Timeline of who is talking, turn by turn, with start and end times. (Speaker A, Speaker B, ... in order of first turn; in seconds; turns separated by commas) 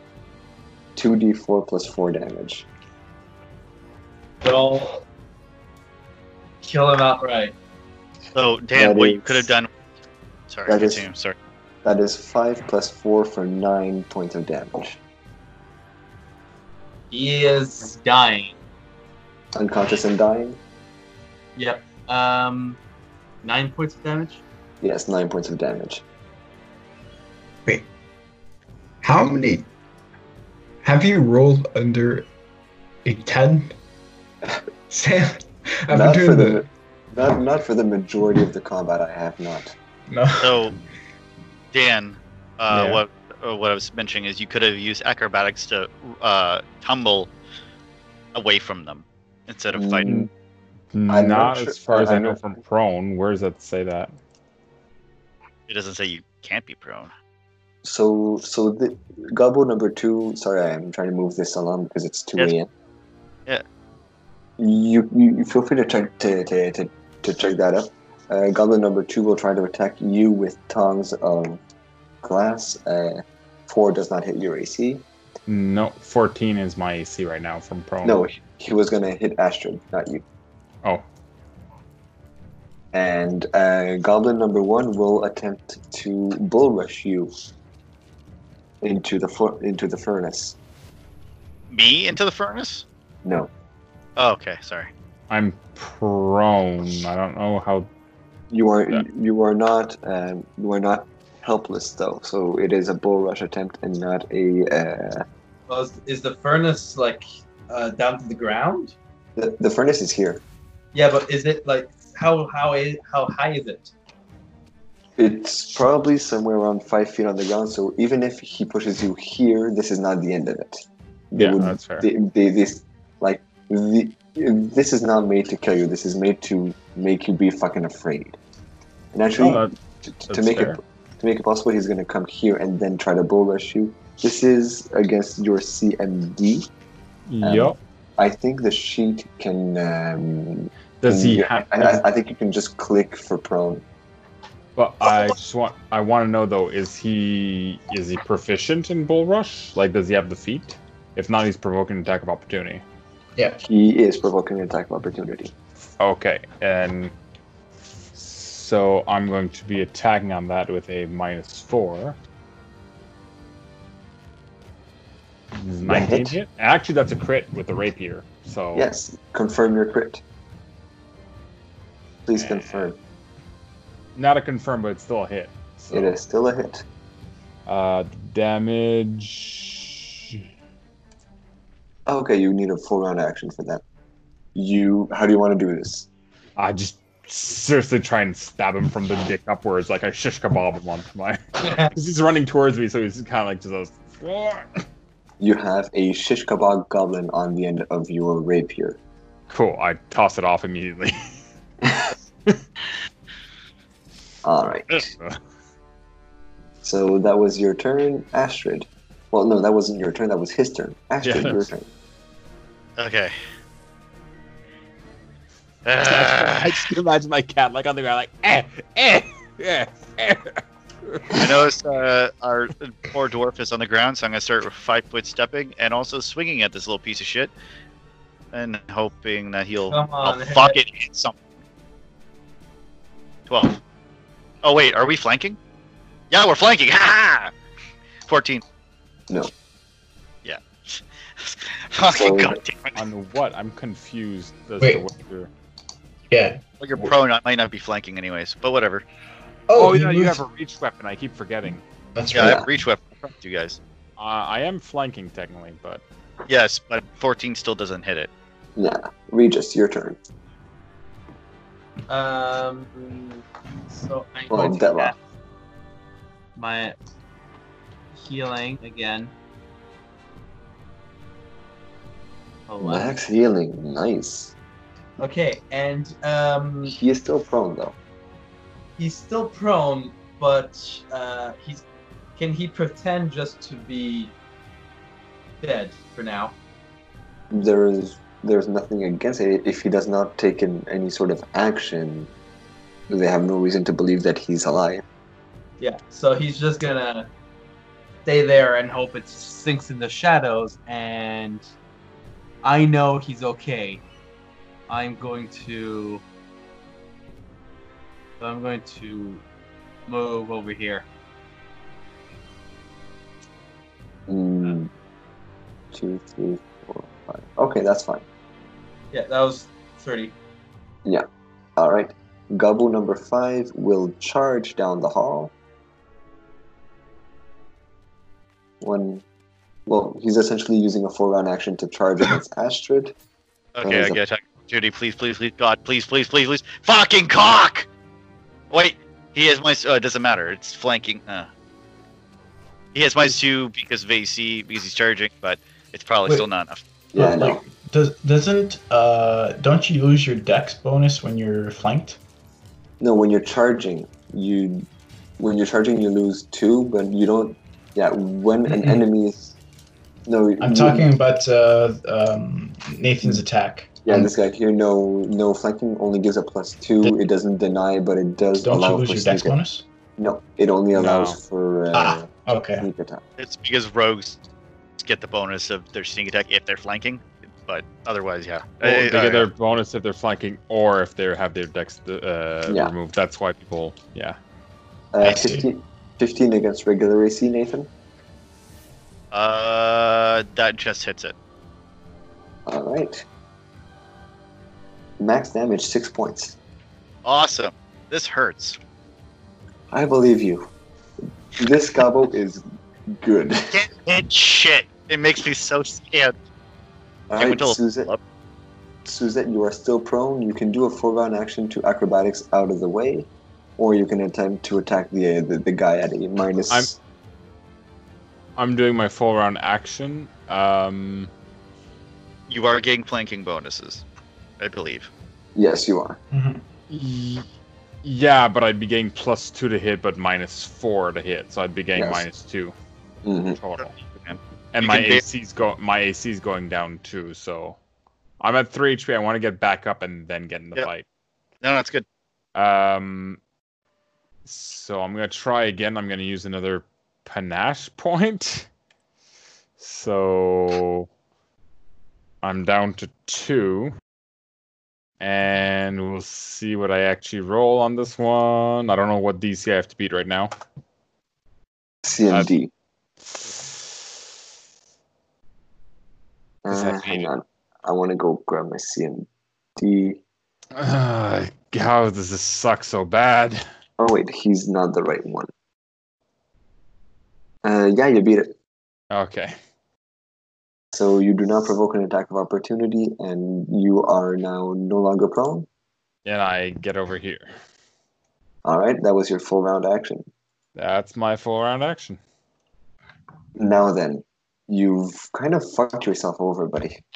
Speaker A: 1.0-2.7, Speaker B: 4.4-5.0, Speaker B: 6.6-7.5, Speaker C: 8.3-9.7, Speaker A: 8.8-9.5, Speaker C: 10.5-11.4, Speaker A: 10.7-11.1, Speaker A: 11.8-15.0, Speaker B: 17.1-18.6, Speaker A: 19.6-20.6, Speaker B: 21.6-22.8, Speaker B: 23.4-24.4, Speaker A: 24.8-26.0, Speaker D: 29.0-29.7, Speaker D: 30.8-32.3, Speaker D: 33.0-33.7, Speaker D: 34.9-36.7, Speaker A: 35.9-39.7, Speaker D: 40.1-40.7, Speaker C: 40.4-40.8, Speaker C: 41.7-47.3, Speaker E: 42.7-43.0, Speaker C: 48.3-50.2, Speaker A: 49.7-50.3, Speaker E: 50.9-54.1, Speaker A: 51.1-52.4, Speaker C: 55.7-57.1, Speaker A: 57.8-62.7, Speaker A: 64.6-71.6, Speaker A: 72.2-75.0, Speaker E: 75.5-78.2, Speaker A: 78.0-80.2, Speaker A: 82.9-87.3, Speaker A: 88.8-90.6, Speaker C: 91.7-92.8, Speaker A: 93.2-93.5, Speaker C: 94.2-94.9, Speaker E: 95.3-97.9, Speaker A: 98.5-105.3, Speaker B: 105.7-109.0, Speaker A: 109.4-110.4, Speaker B: 110.9-113.9, Speaker A: 115.2-128.4, Speaker E: 121.3-122.1, Speaker A: 129.1-136.7, Speaker E: 129.4-129.7, Speaker E: 130.3-130.8, Speaker E: 137.3-137.8, Speaker A: 137.4-143.8, Speaker E: 141.0-142.0, Speaker E: 144.8-152.8, Speaker A: 153.6-155.5, Speaker E: 156.0-157.1, Speaker E: 158.1-162.2, Speaker E: 165.6-168.9, Speaker A: 165.8-166.4, Speaker A: 168.8-170.2, Speaker A: 172.3-173.0, Speaker E: 174.2-176.2, Speaker A: 175.9-176.8, Speaker E: 177.7-180.4, Speaker A: 182.1-183.8, Speaker A: 184.6-186.1, Speaker E: 186.6-191.4, Speaker B: 191.6-191.9, Speaker E: 191.9-194.7, Speaker A: 195.4-199.0, Speaker E: 199.5-201.2, Speaker A: 204.4-205.1, Speaker E: 205.0-205.4, Speaker A: 206.8-211.9, Speaker E: 211.2-211.7, Speaker C: 213.0-213.3, Speaker C: 215.8-216.8, Speaker E: 216.0-221.5, Speaker C: 221.4-227.5, Speaker C: 228.5-231.4, Speaker B: 229.9-230.8, Speaker C: 233.5-233.8, Speaker C: 234.6-235.6, Speaker C: 236.3-237.5, Speaker C: 238.3-238.6, Speaker C: 240.4-243.0, Speaker A: 242.1-242.6, Speaker E: 242.9-245.5, Speaker D: 244.8-245.1, Speaker D: 246.3-247.1, Speaker C: 246.8-249.0, Speaker D: 249.7-250.4, Speaker E: 249.8-251.8, Speaker D: 252.2-252.6, Speaker C: 252.3-253.8, Speaker A: 252.3-252.7, Speaker E: 254.2-256.0, Speaker C: 256.5-258.3, Speaker A: 258.8-260.2, Speaker B: 262.1-265.2, Speaker A: 264.5-265.1, Speaker B: 266.6-267.0, Speaker B: 268.2-269.3, Speaker B: 272.7-273.1, Speaker A: 272.8-274.5, Speaker B: 275.2-277.0, Speaker A: 276.9-278.0, Speaker B: 279.0-281.8, Speaker B: 282.4-284.3, Speaker B: 285.6-286.6, Speaker A: 287.5-292.3, Speaker A: 293.1-295.0, Speaker B: 295.8-297.3, Speaker B: 298.3-301.7, Speaker B: 302.6-304.0, Speaker B: 304.9-306.2, Speaker B: 308.4-309.4, Speaker B: 310.1-311.1, Speaker A: 314.3-314.9, Speaker A: 315.9-318.2, Speaker B: 319.1-320.4, Speaker A: 321.8-325.5, Speaker A: 328.8-329.2, Speaker A: 329.9-333.1, Speaker C: 333.8-337.9, Speaker A: 333.8-334.2, Speaker C: 338.7-341.5, Speaker C: 342.9-346.8, Speaker A: 347.1-347.6, Speaker D: 347.2-352.2, Speaker A: 353.0-354.9, Speaker A: 355.4-359.5, Speaker D: 358.7-359.0, Speaker A: 360.3-361.1, Speaker D: 360.6-364.3, Speaker A: 364.0-369.6, Speaker D: 368.6-369.9, Speaker A: 370.2-373.2, Speaker E: 370.9-371.4, Speaker D: 371.9-372.9, Speaker C: 373.4-374.4, Speaker C: 375.0-379.5, Speaker E: 378.8-384.4, Speaker A: 382.7-382.9, Speaker A: 385.1-387.9, Speaker D: 385.2-385.6, Speaker C: 389.3-391.4, Speaker A: 392.7-393.2, Speaker A: 395.2-396.6, Speaker C: 397.2-398.8, Speaker A: 399.9-400.7, Speaker A: 401.6-402.6, Speaker A: 403.2-403.8, Speaker C: 403.7-406.3, Speaker A: 407.3-408.1, Speaker C: 407.4-408.2, Speaker A: 409.1-417.0, Speaker E: 418.6-421.3, Speaker C: 422.5-424.0, Speaker C: 424.6-425.1, Speaker A: 425.6-426.2, Speaker D: 426.3-426.6, Speaker E: 426.9-427.5, Speaker E: 428.0-432.8, Speaker A: 431.9-432.2, Speaker A: 433.2-433.6, Speaker E: 433.6-433.9, Speaker C: 434.2-435.2, Speaker E: 434.7-437.8, Speaker E: 438.4-441.1, Speaker C: 441.6-442.1, Speaker E: 442.6-443.4, Speaker E: 444.5-448.7, Speaker E: 449.8-451.1, Speaker E: 452.4-453.9, Speaker E: 455.2-460.5, Speaker A: 462.0-462.7, Speaker E: 463.4-463.9, Speaker A: 466.6-470.2, Speaker E: 466.7-467.3, Speaker E: 470.8-473.6, Speaker A: 474.0-475.5, Speaker A: 477.6-478.5, Speaker E: 479.1-479.6, Speaker A: 480.9-485.7, Speaker E: 486.2-487.5, Speaker A: 488.6-490.3, Speaker E: 490.8-492.2, Speaker A: 493.6-497.0